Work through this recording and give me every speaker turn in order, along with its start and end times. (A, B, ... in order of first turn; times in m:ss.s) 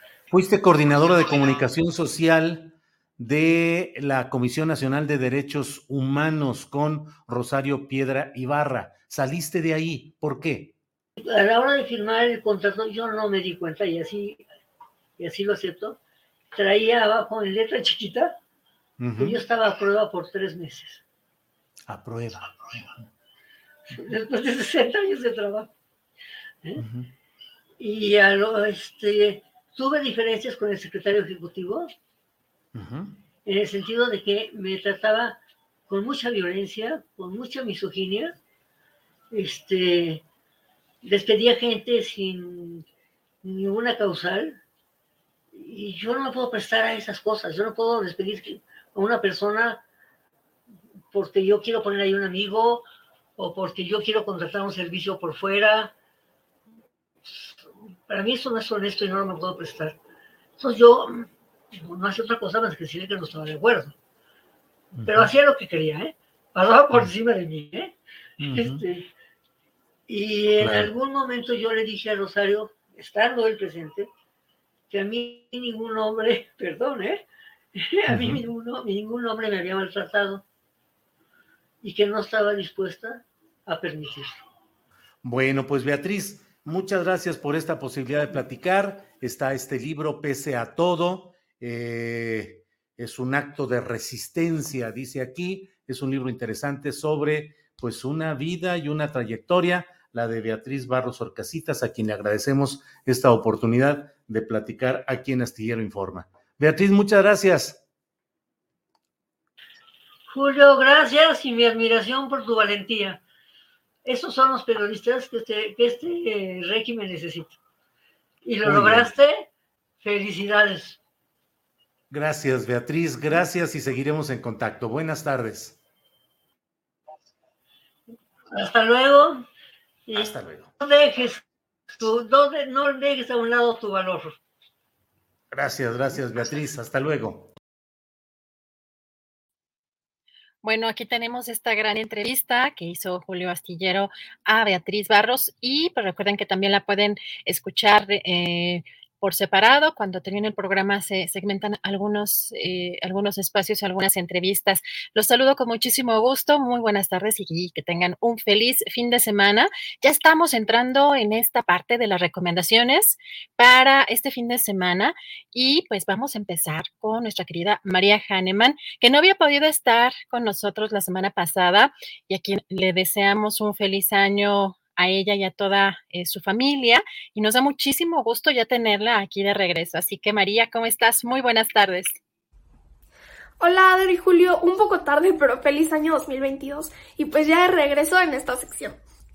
0:00.3-0:10.7 A
0:11.2-0:14.4 B
0:15.2-0:16.0 B
0:16.5-0:18.4 B
0:19.0-0:19.4 A
0:19.2-0:21.0 B
0:21.9-0:23.0 A
0:23.9-0:25.7 B
0:26.8-0:27.1 A
0:27.8-0:31.9 B
0:32.7-0:33.1 A
0:33.4-0:38.4 B
0:39.3-0:40.2 B
0:41.0-0:42.8 B
0:43.4-0:44.6 B
0:45.5-0:49.8 B
0:51.1-0:52.8 B
0:53.4-0:55.9 B
0:57.2-0:57.5 B
0:58.1-0:59.9 B
1:00.6-1:03.9 B
1:04.9-1:05.3 A
1:05.0-1:07.9 B
1:08.4-1:08.8 A
1:08.5-1:09.1 B
1:10.1-1:14.1 B
1:10.6-1:10.9 A
1:14.9-1:17.2 B
1:17.8-1:20.4 B
1:18.1-1:18.4 A
1:21.8-1:24.4 B
1:25.2-1:47.8 A
1:50.3-1:53.2 B
1:54.0-1:57.6 B
1:58.4-1:59.4 B
1:58.6-1:59.1 A
2:00.0-2:01.0 B
2:02.1-2:05.8 A
2:08.5-2:09.4 B
2:10.1-2:11.4 B
2:10.1-2:10.7 A
2:12.0-2:14.4 B
2:15.5-2:17.5 A
2:20.6-3:02.2 C
3:03.6-3:09.0 D